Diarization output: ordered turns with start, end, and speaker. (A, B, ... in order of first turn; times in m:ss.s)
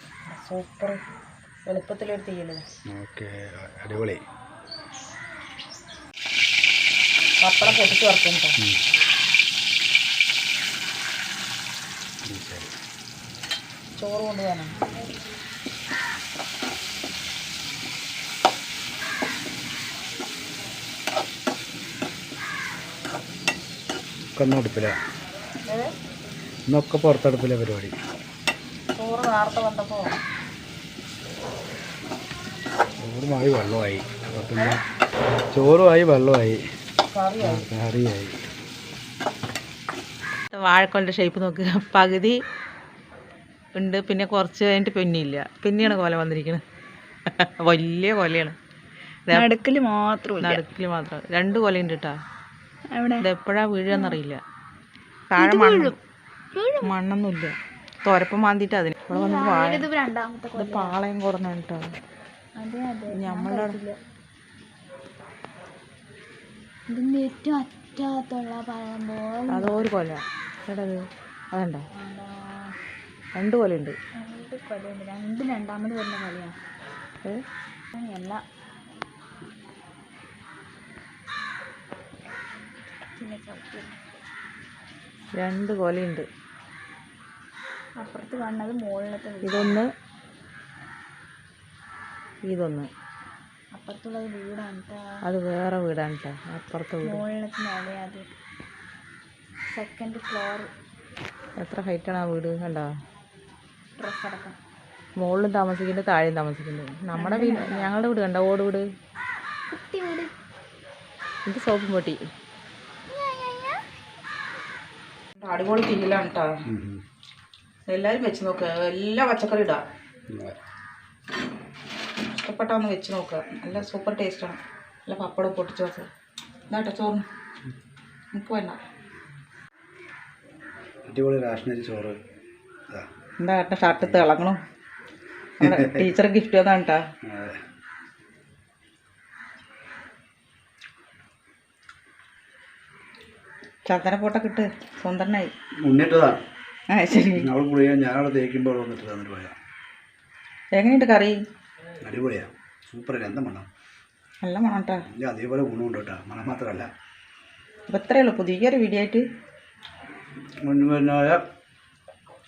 0:00.3-0:01.0 A
0:01.7-0:02.6 A
0:02.9-0:04.2 B
0:07.4-0:08.6 A
0:12.2-0:12.7 B
0:14.0-0:14.7 A
0:24.4-0:25.0 B
0:26.7-0:28.0 B
0:29.0-0:30.1 A
0:33.0-0:34.8 B
0:35.5-0:36.6 B
0:37.1-0:37.7 A
0:37.4-0:38.4 B
0:40.5-0:42.4 A
0:43.8-0:46.6 A
0:47.4-0:48.6 A
0:49.3-0:50.6 C
0:50.4-0:52.2 A
0:52.9-0:53.3 C
0:53.2-0:54.4 A
0:53.9-0:54.2 C
0:55.3-0:56.0 A
0:55.4-0:56.0 C
0:56.6-0:56.9 C
0:56.8-0:57.6 A
0:58.1-0:59.9 A
0:59.1-1:00.9 C
1:00.6-1:01.8 A
1:02.6-1:04.0 C
1:03.1-1:03.8 A
1:06.9-1:09.9 C
1:09.5-1:11.9 A
1:12.0-1:12.7 C
1:13.4-1:14.0 A
1:14.2-1:16.6 C
1:18.0-1:18.4 C
1:23.2-1:24.0 C
1:25.4-1:26.3 A
1:28.0-1:29.8 C
1:29.4-1:29.9 A
1:32.5-1:32.9 A
1:33.7-1:35.1 C
1:35.2-1:37.2 A
1:37.0-1:38.3 C
1:39.7-1:40.7 C
1:41.6-1:42.9 A
1:44.0-1:44.6 C
1:45.2-1:48.9 A
1:47.2-1:48.0 C
1:49.7-1:50.3 C
1:51.5-1:52.3 A
1:55.4-1:56.5 A
1:56.7-1:57.0 B
1:57.9-1:59.8 A
2:00.3-2:00.6 B
2:02.3-2:06.1 A
2:06.7-2:07.2 A
2:08.3-2:08.8 A
2:11.1-2:12.2 B
2:13.4-2:14.6 A
2:13.9-2:14.2 B
2:15.6-2:17.0 A
2:15.6-2:16.0 B
2:17.2-2:17.6 B
2:23.9-2:25.5 A
2:25.8-2:26.4 B
2:26.9-2:27.5 A
2:27.3-2:29.6 B
2:30.8-2:31.4 A
2:32.0-2:33.7 B
2:34.4-2:35.0 A
2:35.1-2:36.9 B
2:37.9-2:39.2 A
2:40.6-2:41.4 B